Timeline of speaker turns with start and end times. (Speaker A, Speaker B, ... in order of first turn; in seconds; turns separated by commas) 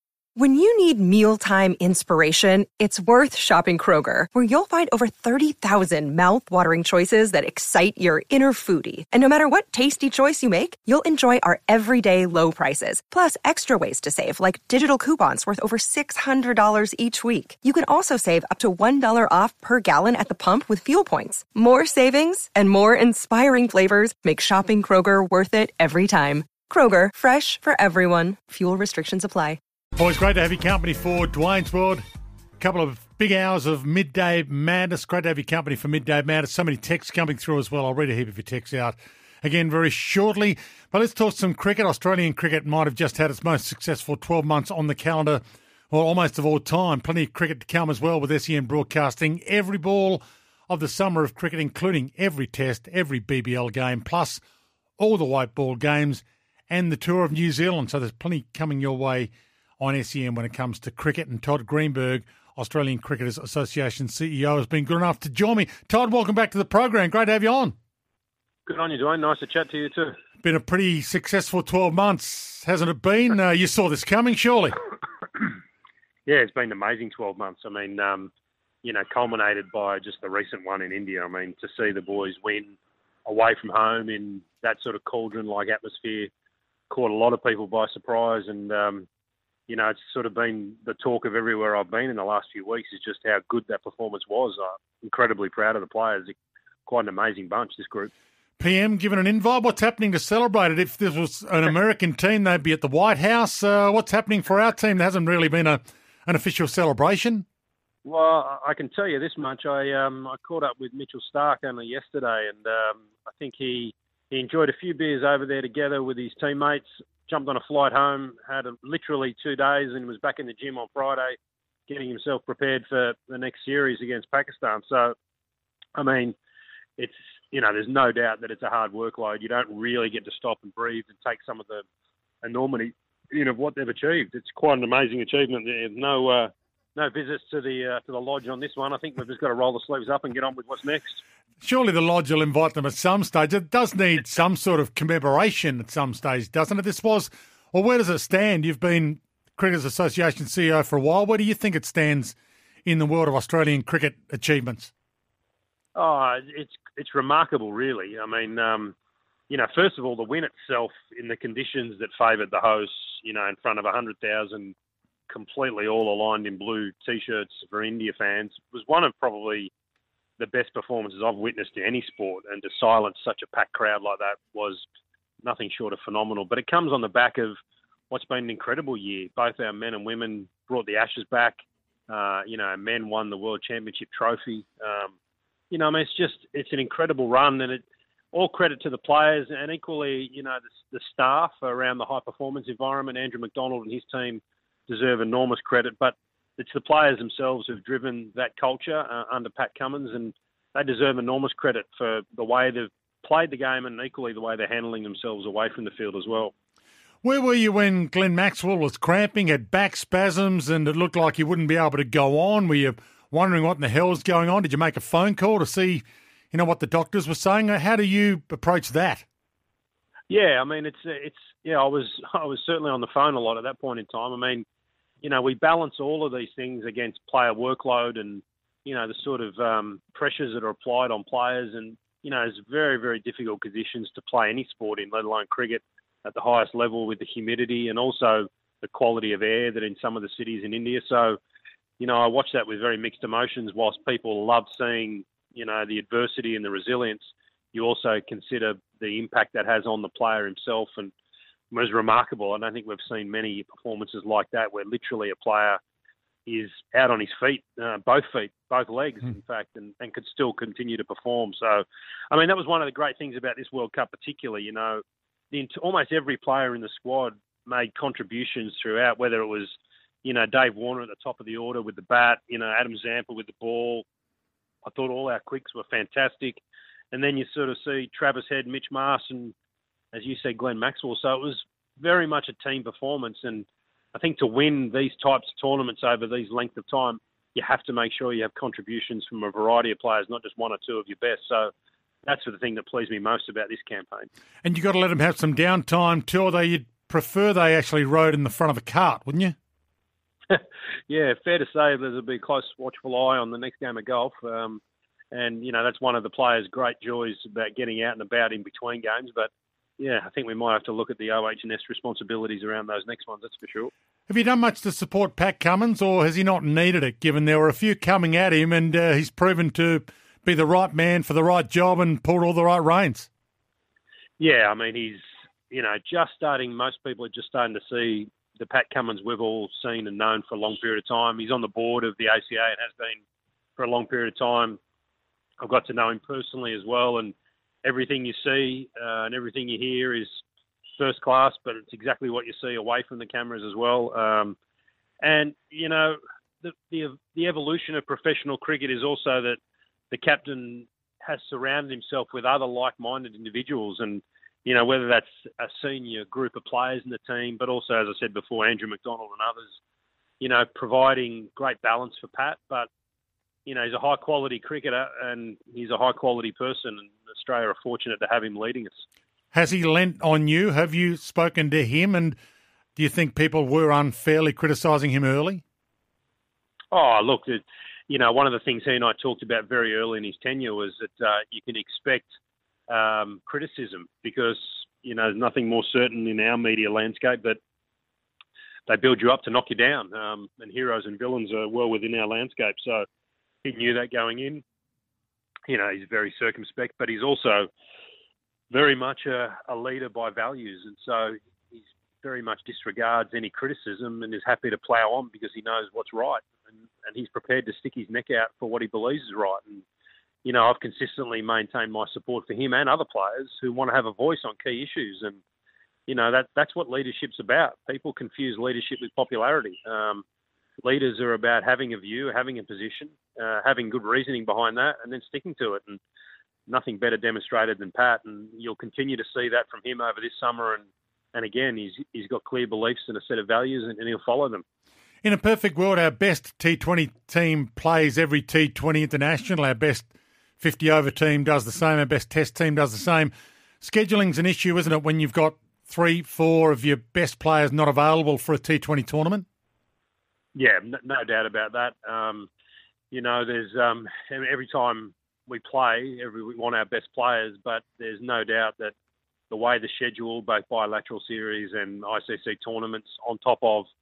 Speaker A: 0.4-29.6, Speaker B: 30.0-32.0, Speaker B: 32.6-54.4, Speaker B: 55.0-67.8, Speaker C: 68.7-70.2, Speaker B: 70.4-74.8, Speaker C: 76.3-78.3, Speaker C: 78.8-86.3, Speaker C: 86.9-89.1, Speaker C: 89.7-96.3, Speaker C: 96.9-98.1, Speaker B: 98.6-107.5, Speaker C: 108.0-121.4, Speaker C: 121.9-125.2, Speaker C: 126.0-126.4, Speaker C: 127.0-131.8, Speaker C: 132.4-141.2, Speaker B: 141.6-154.9, Speaker C: 155.9-158.9, Speaker C: 159.5-164.8, Speaker C: 165.3-169.7, Speaker C: 170.4-174.9, Speaker C: 175.4-177.6, Speaker C: 178.1-185.2, Speaker C: 185.7-206.5, Speaker B: 207.2-219.2, Speaker C: 220.3-224.7, Speaker C: 225.2-241.4, Speaker C: 242.0-251.1, Speaker C: 251.7-255.8, Speaker C: 256.5-274.1, Speaker C: 274.9-279.6, Speaker C: 280.1-291.7, Speaker C: 292.2-294.3, Speaker B: 294.6-299.6, Speaker C: 300.5-304.8, Speaker C: 305.3-313.9, Speaker B: 314.3-323.3, Speaker C: 324.4-333.2, Speaker C: 333.8-334.8, Speaker C: 335.6-340.4, Speaker C: 341.0-344.6, Speaker C: 345.2-349.6, Speaker C: 350.1-359.8, Speaker C: 360.4-362.9, Speaker C: 363.7-369.0, Speaker B: 369.5-372.4, Speaker B: 373.0-375.6, Speaker C: 376.9-382.3, Speaker C: 382.9-387.6, Speaker C: 388.9-393.1, Speaker C: 393.6-394.6, Speaker C: 395.7-397.7, Speaker C: 398.7-406.5, Speaker C: 407.0-409.9, Speaker C: 410.4-415.4, Speaker C: 416.1-420.2, Speaker C: 420.8-426.0, Speaker C: 426.7-434.6, Speaker B: 435.2-449.5, Speaker C: 450.6-452.5, Speaker C: 453.1-458.9, Speaker C: 459.5-463.9